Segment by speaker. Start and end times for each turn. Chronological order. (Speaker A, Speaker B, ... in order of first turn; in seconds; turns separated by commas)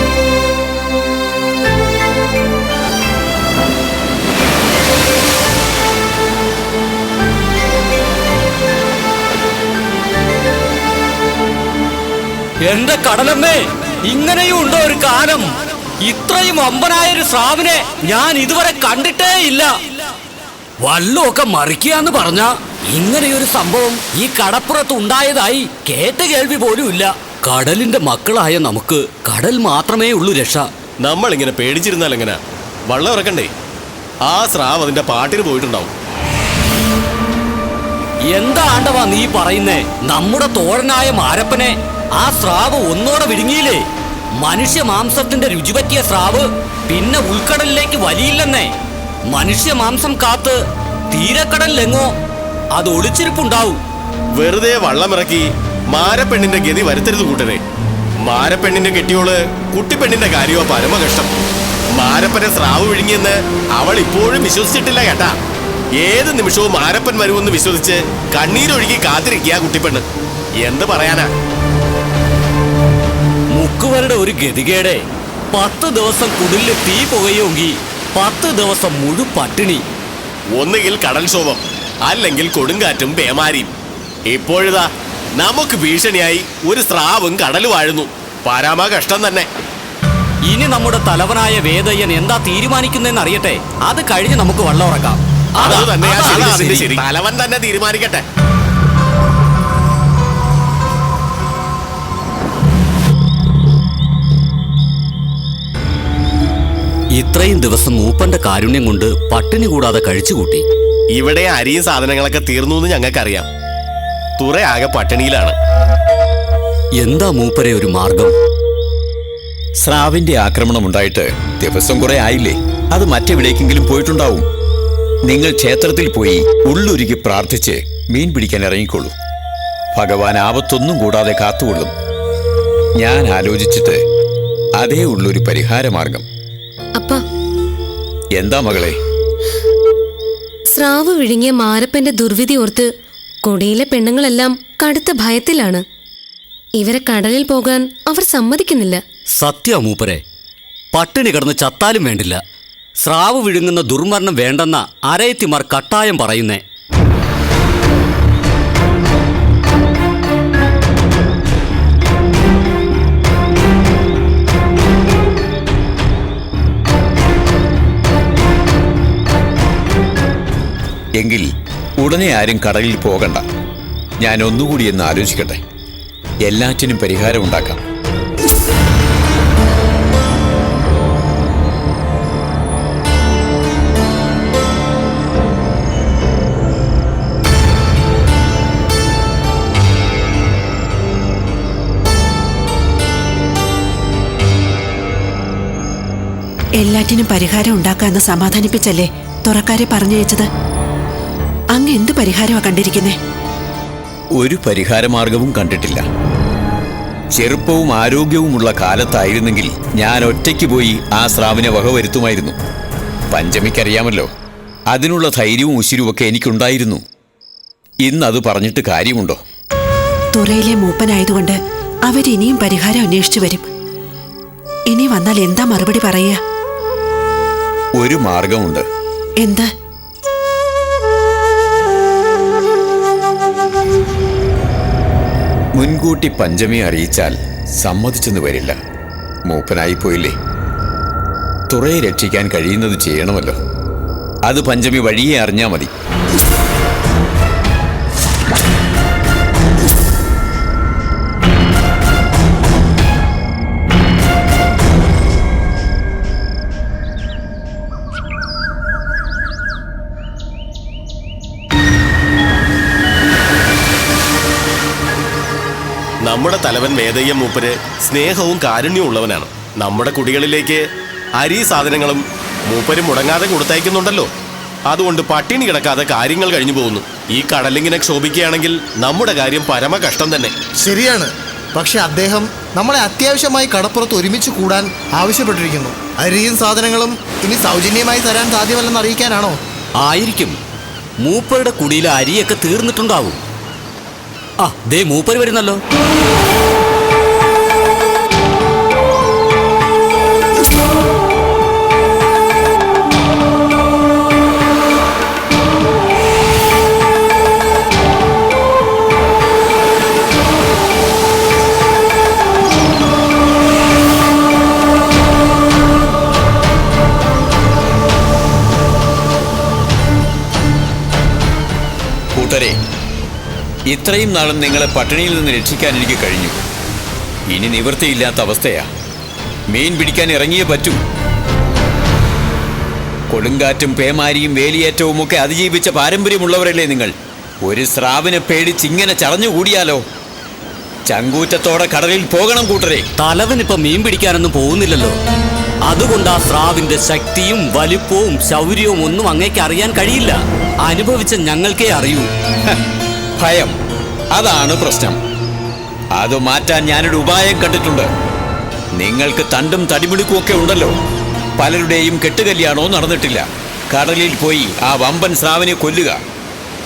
Speaker A: 12.6-19.8, Speaker A: 20.8-30.7, Speaker B: 31.0-32.4, Speaker B: 32.9-33.5, Speaker B: 34.3-35.9, Speaker A: 38.3-43.8, Speaker A: 44.4-48.7, Speaker A: 49.3-50.6, Speaker A: 51.1-52.1, Speaker A: 52.7-53.8, Speaker B: 54.4-57.6, Speaker B: 58.2-61.3, Speaker B: 61.9-65.3, Speaker B: 66.0-70.0, Speaker B: 70.6-71.3, Speaker A: 73.5-75.0, Speaker A: 75.5-79.8, Speaker B: 80.5-83.7, Speaker B: 84.3-84.9, Speaker B: 85.4-89.5, Speaker A: 90.5-97.0, Speaker B: 95.6-98.2, Speaker A: 107.1-110.6, Speaker B: 111.2-113.5, Speaker B: 114.4-115.5, Speaker A: 117.0-118.3, Speaker C: 119.8-124.4, Speaker C: 125.2-129.1, Speaker C: 129.9-131.9, Speaker C: 133.0-134.0, Speaker C: 134.8-136.2, Speaker D: 137.0-137.2, Speaker C: 138.3-139.0, Speaker D: 140.7-142.9, Speaker D: 143.4-145.8, Speaker D: 146.8-149.0, Speaker A: 149.4-150.2, Speaker A: 150.9-152.4, Speaker A: 153.0-156.6, Speaker C: 171.2-171.5, Speaker C: 172.0-173.4, Speaker C: 174.2-175.6, Speaker C: 176.4-177.8, Speaker E: 196.8-200.5, Speaker E: 201.7-203.2, Speaker C: 204.4-206.1, Speaker C: 207.3-212.5, Speaker C: 213.3-214.3, Speaker C: 214.9-217.0, Speaker C: 218.0-219.4, Speaker E: 220.3-223.7, Speaker E: 224.9-226.4, Speaker C: 228.0-228.8, Speaker E: 229.4-229.7, Speaker C: 235.7-238.8, Speaker C: 239.5-240.3, Speaker C: 241.7-243.6, Speaker C: 244.4-245.9, Speaker B: 266.2-270.8, Speaker B: 271.4-274.3, Speaker B: 274.9-280.5, Speaker F: 280.8-289.6, Speaker A: 290.0-290.5, Speaker A: 291.2-293.4, Speaker A: 294.6-295.8, Speaker C: 322.4-322.8, Speaker C: 323.9-326.6, Speaker C: 327.5-328.9, Speaker C: 329.7-331.0, Speaker C: 333.3-340.0, Speaker C: 341.1-343.1, Speaker A: 343.2-345.1, Speaker A: 345.9-352.3, Speaker C: 353.4-353.7, Speaker C: 354.3-355.2, Speaker C: 356.1-358.1, Speaker C: 359.0-360.9, Speaker C: 361.6-366.2